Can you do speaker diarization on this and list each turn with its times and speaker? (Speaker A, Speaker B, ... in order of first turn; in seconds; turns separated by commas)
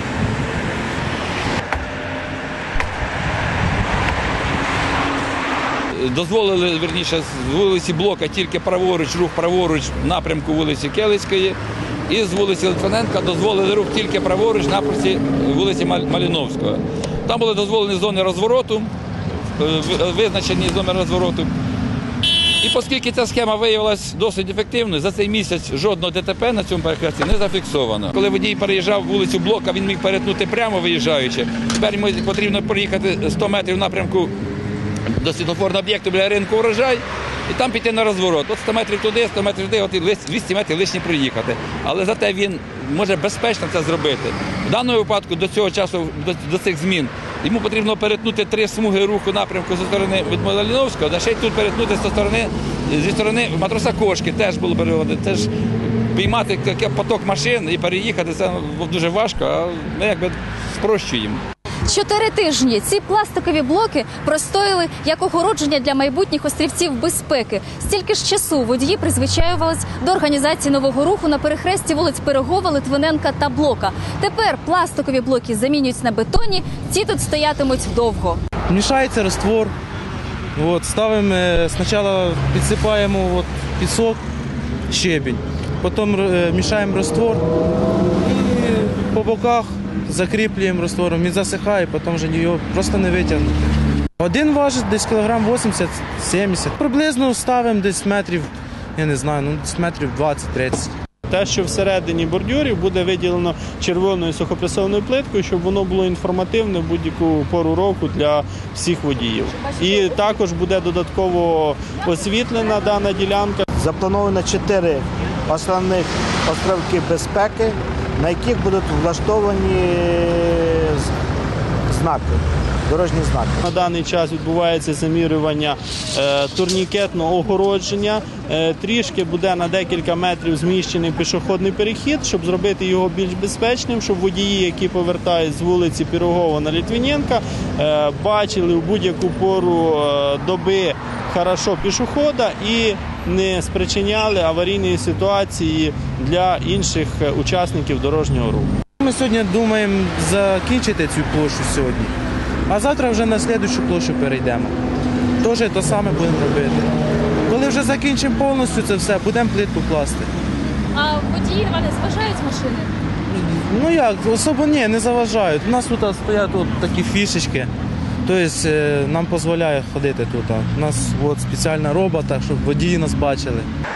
Speaker A: 5.9-11.6, Speaker A: 12.1-18.9, Speaker A: 19.6-21.5, Speaker A: 22.6-34.3, Speaker A: 35.1-55.5, Speaker A: 56.1-61.4, Speaker B: 61.9-78.4, Speaker C: 78.7-79.7, Speaker C: 80.6-84.2, Speaker C: 84.9-87.4, Speaker C: 88.2-100.9, Speaker D: 101.3-113.6, Speaker E: 113.8-121.1, Speaker E: 121.9-123.6, Speaker D: 123.6-148.7, Speaker C: 149.0-152.1, Speaker C: 152.7-154.7, Speaker C: 155.4-156.9, Speaker C: 157.5-160.3, Speaker B: 160.9-162.9, Speaker C: 163.3-167.7, Speaker C: 168.2-173.7